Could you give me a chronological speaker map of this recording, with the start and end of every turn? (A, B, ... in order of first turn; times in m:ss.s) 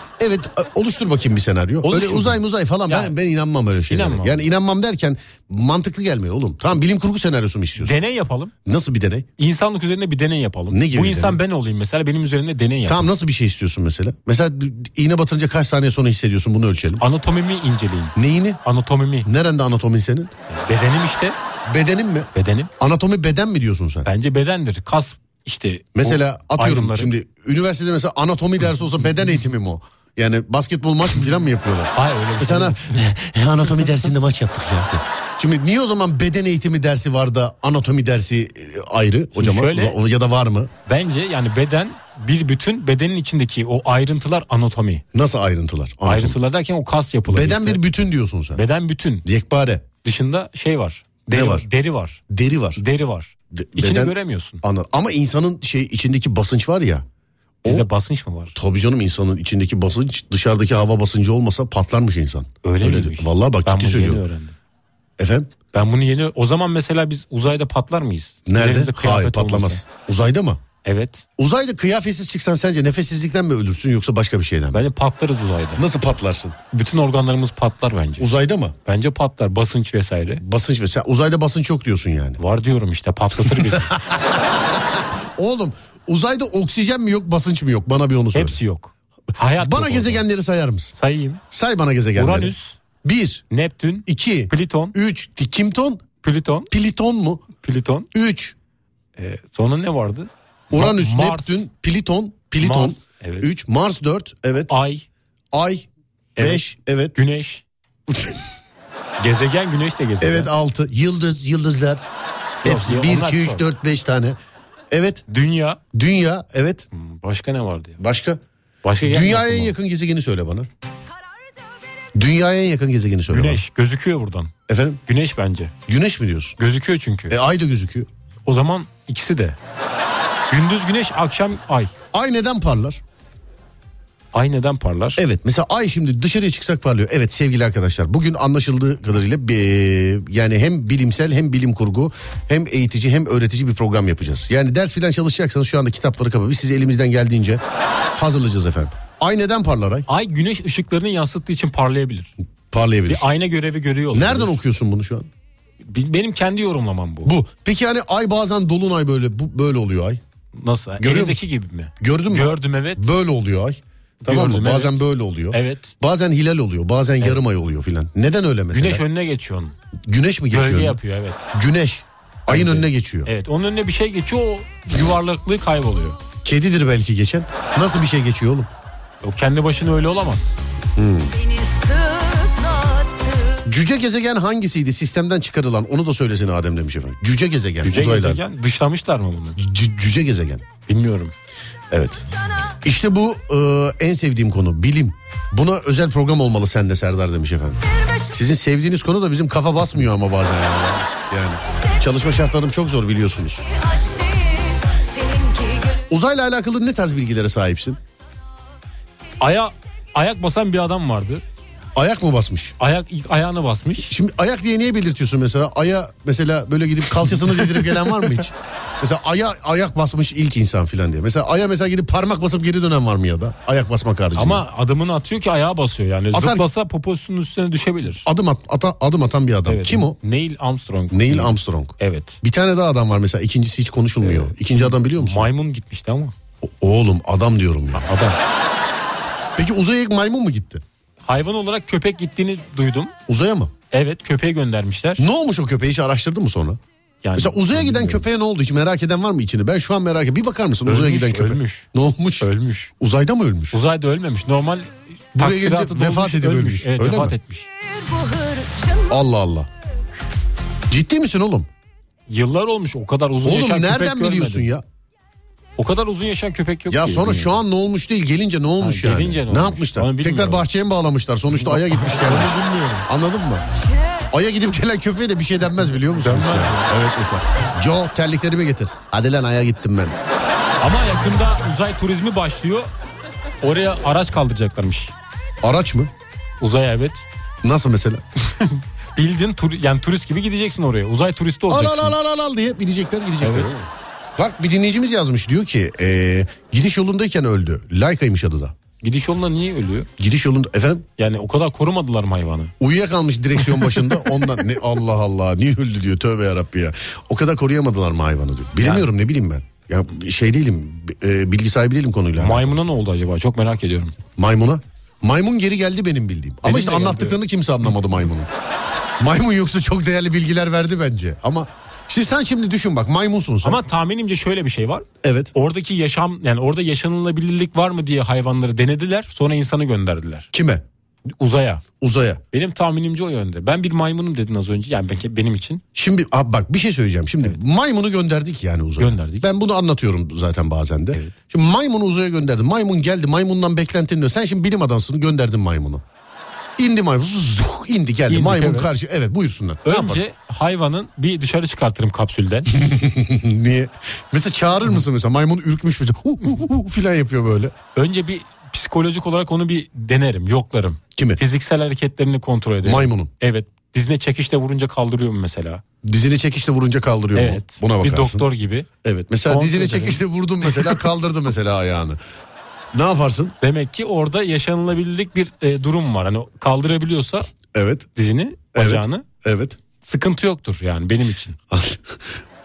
0:00.2-0:08.0 A
0:01.8-0:03.1 B
0:03.9-0:04.4 B
0:07.8-0:08.5 B
0:08.6-0:09.3 A
0:09.4-0:13.1 B
0:10.7-0:11.4 A
0:12.8-0:17.0 A
0:17.0-0:19.3 B
0:18.2-0:18.6 A
0:19.2-0:20.3 A
0:20.5-0:21.4 B
0:21.6-0:24.1 A
0:22.3-0:22.7 B
0:24.0-0:27.1 B
0:25.9-0:40.7 A
0:31.9-0:33.0 B
0:39.4-0:40.0 B
0:40.8-0:45.0 B
0:45.1-0:46.4 A
0:46.0-0:47.8 B
0:47.3-0:48.6 A
0:48.5-0:49.2 B
0:49.2-0:49.8 A
0:50.0-0:52.2 B
0:51.3-0:51.7 A
0:52.3-0:52.8 A
0:52.8-0:54.6 B
0:53.5-0:57.0 A
0:57.6-0:58.6 B
0:58.5-1:04.2 A
1:02.6-1:04.6 B
1:05.2-1:05.5 A
1:05.7-1:09.8 B
1:08.5-1:10.6 A
1:10.8-1:11.2 B
1:11.4-1:14.8 A
1:14.7-1:15.8 B
1:15.8-1:16.6 A
1:16.7-1:18.3 B
1:18.2-1:18.7 A
1:18.8-1:20.4 B
1:20.4-1:22.4 A
1:22.4-1:23.9 B
1:23.5-1:28.6 A
1:28.3-1:30.2 B
1:29.6-1:30.9 A
1:31.0-1:31.4 B
1:31.5-1:33.4 A
1:32.2-1:32.8 B
1:33.5-1:34.9 B
1:34.0-1:36.0 A
1:36.2-1:36.7 B
1:36.7-1:37.5 A
1:37.6-1:38.1 B
1:38.1-1:38.5 A
1:39.2-1:41.6 B
1:40.7-1:44.7 A
1:42.6-1:43.5 B
1:44.7-1:45.0 B
1:45.5-1:45.8 A
1:46.4-1:46.6 B
1:46.4-1:47.2 A
1:47.1-1:47.6 B
1:48.1-1:48.4 A
1:49.2-1:50.5 B
1:50.2-1:52.0 A
1:52.6-1:54.4 A
1:52.6-1:53.6 B
1:54.9-1:55.2 A
1:55.3-1:55.8 B
1:55.9-1:56.8 A
1:56.9-1:58.0 B
1:58.0-1:58.4 A
1:58.8-1:59.7 B
1:59.0-2:00.7 A
2:02.1-2:03.6 A
2:03.3-2:04.5 B
2:04.7-2:05.0 A
2:05.1-2:05.7 B
2:05.9-2:06.6 A
2:06.6-2:07.3 B
2:07.3-2:08.1 A
2:08.4-2:09.6 B
2:10.5-2:11.9 B
2:12.1-2:13.0 A
2:14.3-2:15.2 B
2:15.2-2:27.6 A
2:28.1-2:30.1 A
2:30.1-2:32.3 B
2:32.7-2:33.2 A
2:33.1-2:34.6 B
2:34.1-2:35.3 A
2:35.8-2:37.3 B
2:37.2-2:40.2 A
2:40.6-2:43.1 B
2:41.0-2:41.4 A
2:42.0-2:49.0 A
2:44.2-2:45.9 B
2:48.7-2:49.7 B
2:50.1-2:51.0 A
2:50.5-2:51.4 B
2:51.5-2:53.3 A
2:52.5-2:56.2 B
2:56.4-2:58.7 A
2:59.2-3:00.6 B
3:01.0-3:01.3 A
3:01.4-3:03.3 C
3:03.6-3:08.4 A
3:07.8-3:09.6 B
3:09.6-3:10.6 A
3:10.9-3:11.3 B
3:11.9-3:12.2 A
3:12.8-3:23.6 A
3:24.0-3:24.5 C
3:25.1-3:25.8 C
3:26.1-3:28.0 A
3:29.4-3:31.4 B
3:32.0-3:32.8 A
3:32.8-3:34.1 B
3:34.1-3:44.6 A
3:44.4-3:48.3 B
3:46.3-3:46.7 A
3:48.2-3:50.2 A
3:49.6-3:52.4 B
3:51.1-3:55.5 A
3:54.2-3:56.3 B
3:56.6-3:58.0 A
3:57.9-3:58.4 B
3:59.6-4:00.8 A
4:01.2-4:03.1 B
4:03.3-4:03.7 A
4:03.9-4:05.2 B
4:05.2-4:06.8 A
4:07.2-4:08.2 B
4:07.4-4:12.5 A
4:10.8-4:11.9 B
4:12.4-4:12.9 B
4:13.0-4:13.8 A
4:13.7-4:17.7 B
4:15.4-4:17.4 A
4:18.3-4:18.9 C
4:19.1-4:19.7 A
4:20.9-4:21.7 A
4:22.3-4:24.7 B
4:23.4-4:24.8 A
4:25.8-4:27.6 B
4:26.9-4:33.6 A
4:28.8-4:30.6 B
4:31.6-4:33.1 B
4:34.3-4:40.2 A
4:36.2-4:36.9 B
4:40.8-4:42.9 B
4:43.6-4:45.1 B
4:45.6-4:46.1 A
4:46.6-4:47.2 B
4:47.6-4:48.2 A
4:48.6-4:52.2 B
4:51.7-4:58.7 A
4:53.4-4:53.7 B
4:59.0-5:00.1 B
5:00.2-5:01.0 A
5:01.2-5:02.7 B
5:02.8-5:12.8 A
5:08.8-5:09.1 B
5:12.4-5:14.1 B
5:14.4-5:18.5 A
5:16.6-5:17.4 B
5:19.2-5:23.8 A
5:23.6-5:30.5 B
5:25.2-5:25.5 A
5:30.5-5:30.8 A
5:31.4-5:31.8 B
5:32.0-5:32.4 A
5:32.5-5:35.8 B
5:35.9-5:46.0 A
5:39.0-5:39.5 B
5:46.8-5:50.2 A
5:48.3-5:48.9 B
5:49.8-5:52.7 B
5:52.7-5:57.7 A
5:57.9-6:05.8 B
6:01.1-6:01.4 A
6:02.8-6:03.3 A
6:06.0-6:08.4 A
6:07.3-6:08.9 B
6:09.0-6:12.2 A
6:09.4-6:11.0 B
6:12.9-6:13.6 A
6:13.6-6:17.5 B
6:17.7-6:18.1 A
6:18.2-6:19.2 B
6:18.7-6:19.8 A
6:20.0-6:21.6 B
6:21.7-6:22.2 A